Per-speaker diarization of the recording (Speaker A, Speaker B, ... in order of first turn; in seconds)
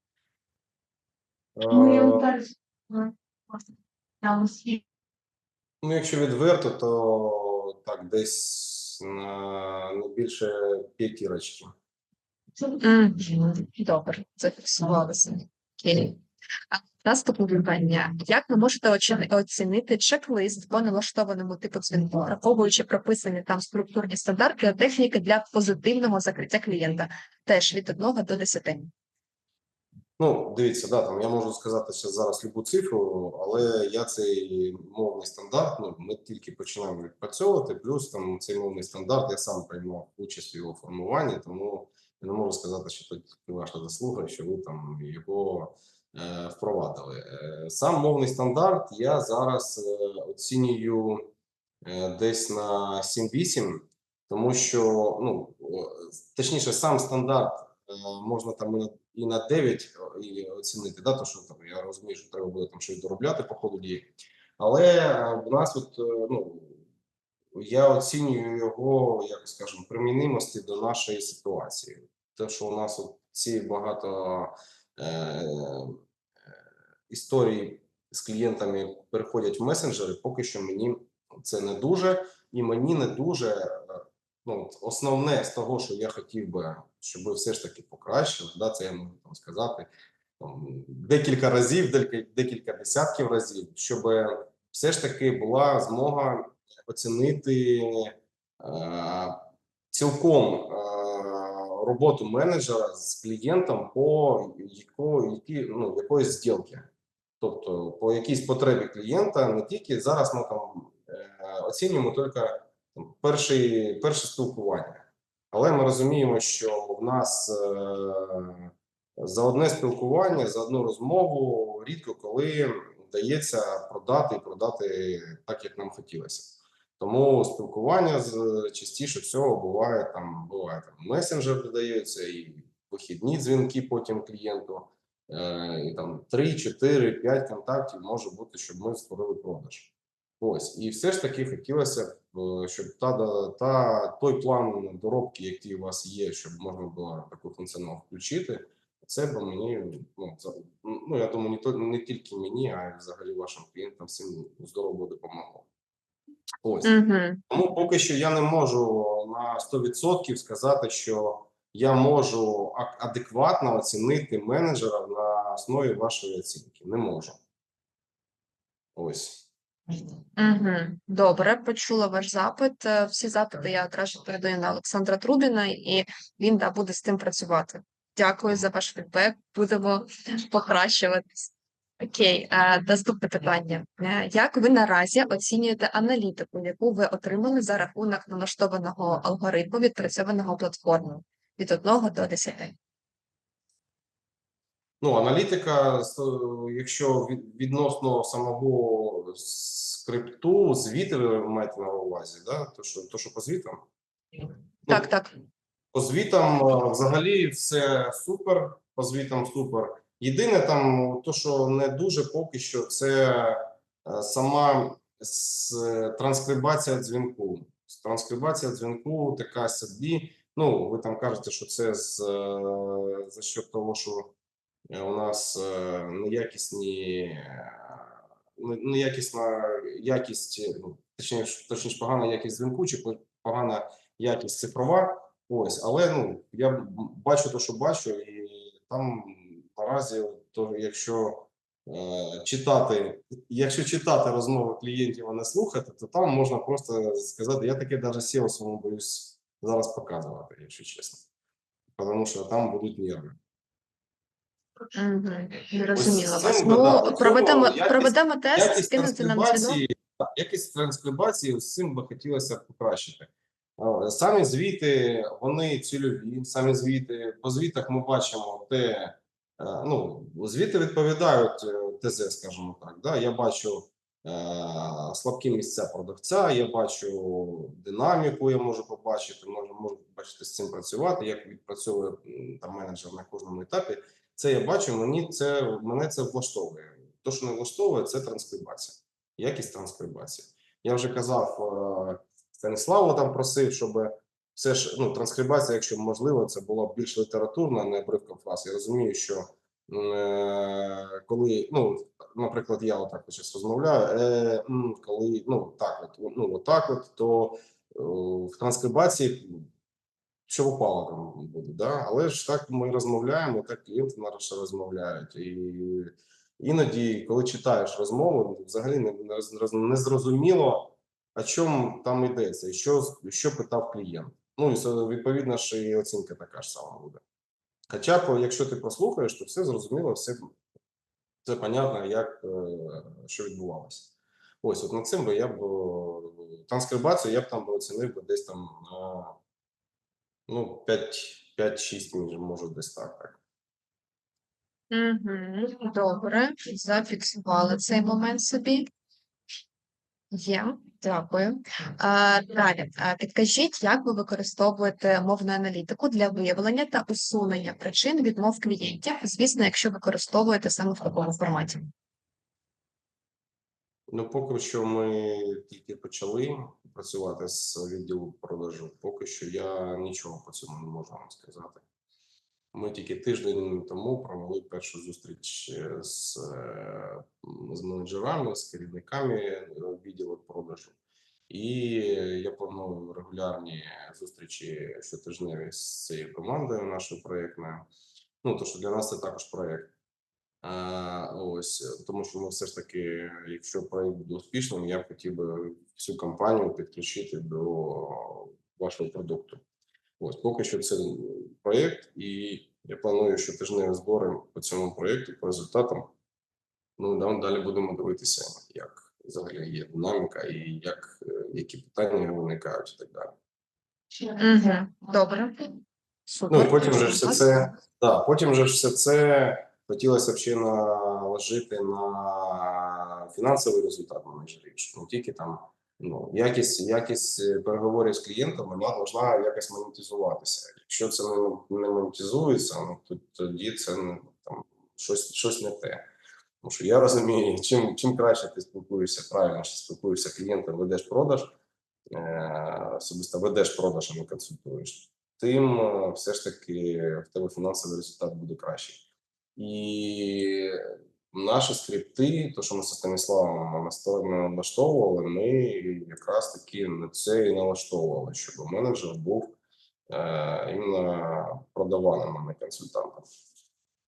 Speaker A: 1.6-2.3, 5.8-11.7, 30.2-66.8, 67.5-76.0, 77.1-106.9, 107.4-155.7, 156.6-156.9, 157.5-167.4, 169.0-169.5, 195.0-203.8, 205.9-224.3, 224.9-251.2, 252.0-253.4, 255.9-309.7, 310.5-327.2, 327.9-330.5, 331.4-339.4, 340.5-343.4, 364.1-371.8, 372.7-381.0, 381.5-387.9, 388.4-389.9, 390.6-399.6, 400.2-406.1, 407.0-413.3, 416.5-436.1, 436.6-441.6, 442.1-449.0, 449.6-459.6, 460.1-463.3
Speaker B: 1.7-3.6, 4.2-4.8, 12.6-16.2, 16.7-28.9, 156.8-157.4, 170.4-192.8, 204.9-205.3, 254.9-259.8, 344.9-348.9, 350.3-361.9, 414.2-415.8, 416.3-417.7